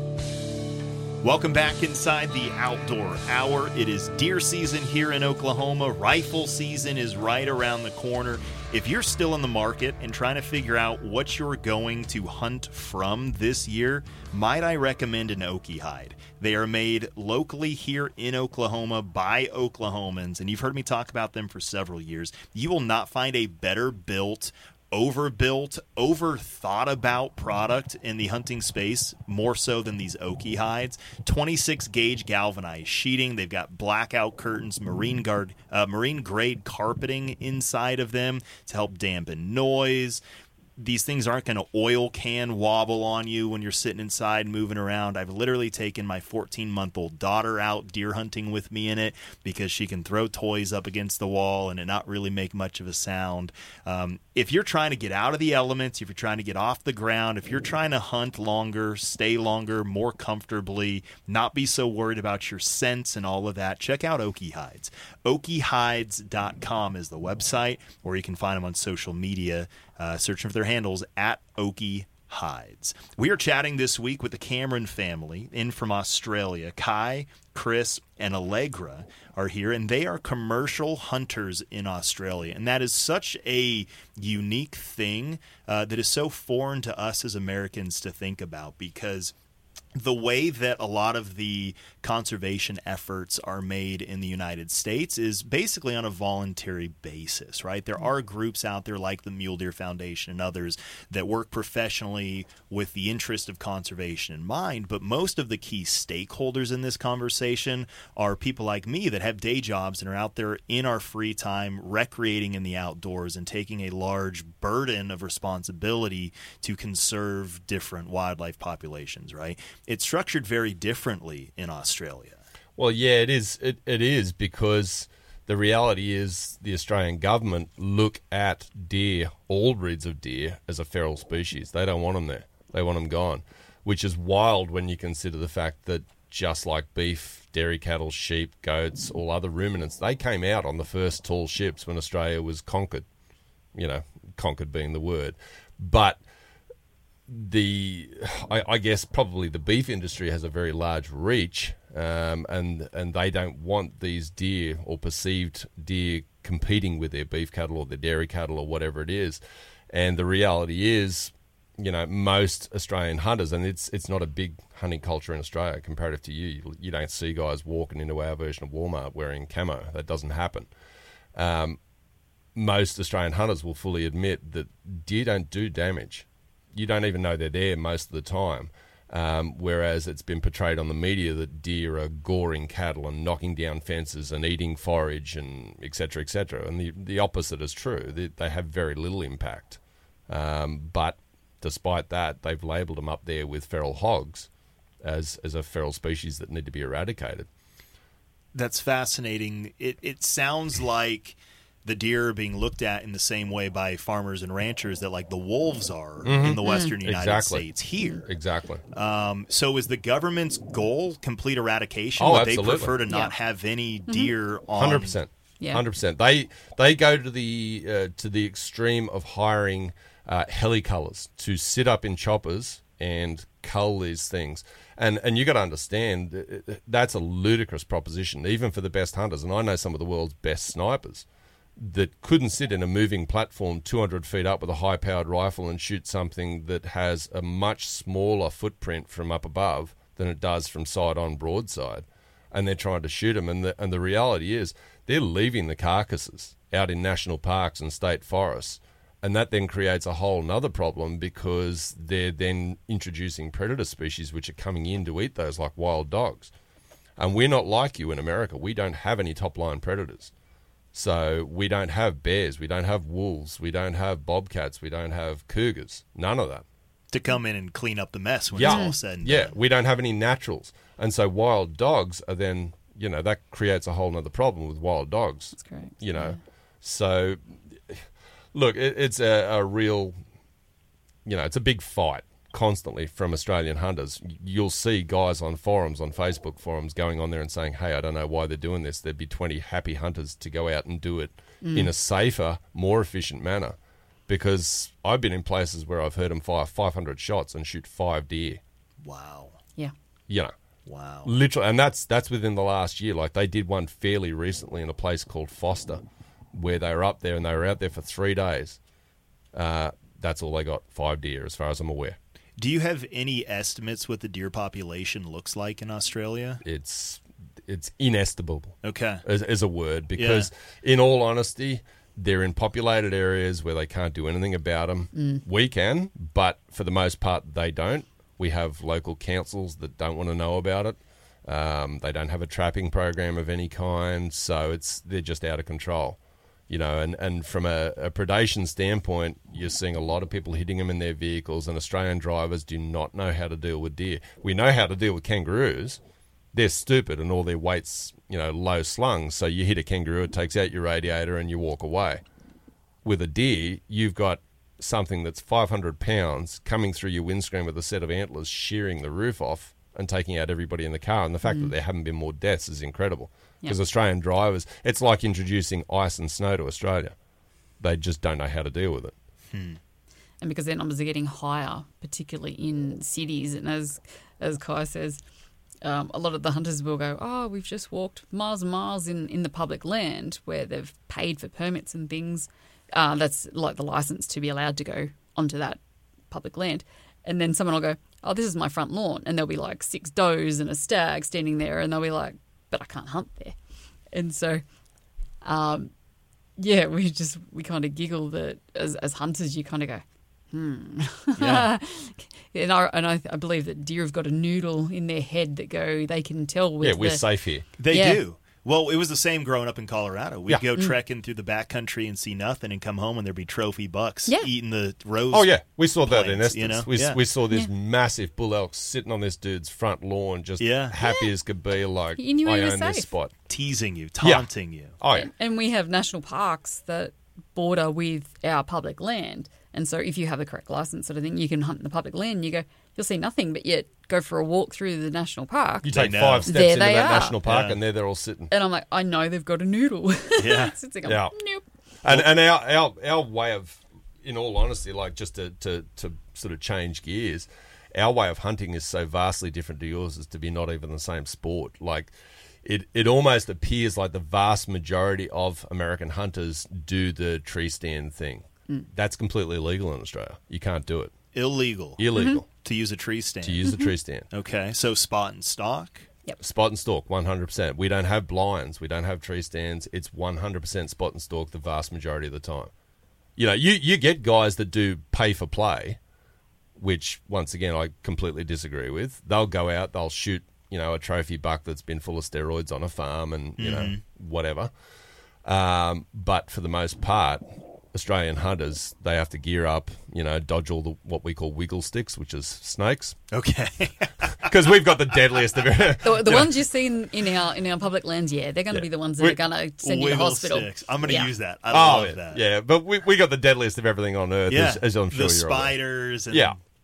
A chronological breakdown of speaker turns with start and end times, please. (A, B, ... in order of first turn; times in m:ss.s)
0:01.2-0:40.2 A
0:40.8-1:29.4 A
1:30.0-2:02.4 A
2:02.8-2:23.1 B
2:23.7-2:26.2 B
2:27.3-2:50.7 B
2:51.4-2:51.8 B
2:52.6-3:14.5 B
3:15.0-3:17.5 B
3:18.5-3:28.3 A
3:26.2-3:27.7 B
3:26.6-3:27.0 C
3:28.2-3:28.8 B
3:28.9-3:35.2 A
3:32.2-3:33.0 B
3:33.1-3:33.4 C
3:34.7-3:51.3 B
3:51.8-4:16.5 B
4:17.2-4:20.3 B
4:20.9-4:26.6 B
4:27.1-4:29.6 A
4:28.6-4:40.2 B
4:28.6-4:29.0 C
4:35.6-4:36.4 C
4:41.2-4:53.8 B
4:51.6-4:51.9 C
4:54.3-4:58.6 B
4:59.0-4:59.6 A
5:00.3-5:00.5 B
5:00.9-5:01.3 A
5:01.2-5:08.8 B
5:09.5-5:12.2 B
5:12.6-5:16.6 A
5:16.6-5:46.0 B
5:18.8-5:19.2 A
5:20.2-5:20.5 A
5:25.2-5:25.4 C
5:46.5-5:52.2 B
5:53.0-6:07.2 B
6:01.5-6:01.7 C
6:07.8-6:09.2 B
6:09.5-6:09.8 A
6:10.4-6:15.2 C
6:15.8-6:25.8 C
6:26.3-6:33.6 C
6:34.1-6:34.6 C
6:35.4-6:35.9 C
6:36.6-6:47.2 C
6:41.4-6:41.7 A
6:46.8-6:47.7 B
6:47.8-6:57.2 A
6:47.9-6:48.2 C
6:55.3-7:03.3 B
7:00.6-7:01.0 A
7:01.0-7:01.3 C
7:02.2-7:03.1 C
7:03.5-7:04.9 A
7:04.2-7:04.5 B
7:05.0-7:05.3 B
7:05.1-7:17.4 C
7:15.8-7:18.5 B
7:15.9-7:16.6 A
7:17.4-7:17.8 A
7:18.5-7:21.6 C
7:20.4-7:20.7 A
7:21.0-7:21.4 B
7:22.0-7:41.1 B
7:41.3-7:42.0 A
7:42.0-7:42.5 B
7:42.2-7:42.4 C
7:42.5-7:43.6 A
7:43.4-7:44.3 B
7:43.6-7:43.9 C
7:44.3-7:46.1 A
7:46.4-7:52.7 B
7:53.4-7:56.0 B
7:56.8-8:04.7 B
8:03.6-8:04.0 A
8:05.4-8:07.4 B
8:07.9-8:13.2 B
8:13.3-8:14.5 A
8:14.4-8:16.6 B
8:16.0-8:21.3 C
8:18.7-8:19.4 B
8:19.8-8:22.4 A
8:21.7-8:25.8 B
8:24.5-8:26.6 A
8:26.3-8:26.6 B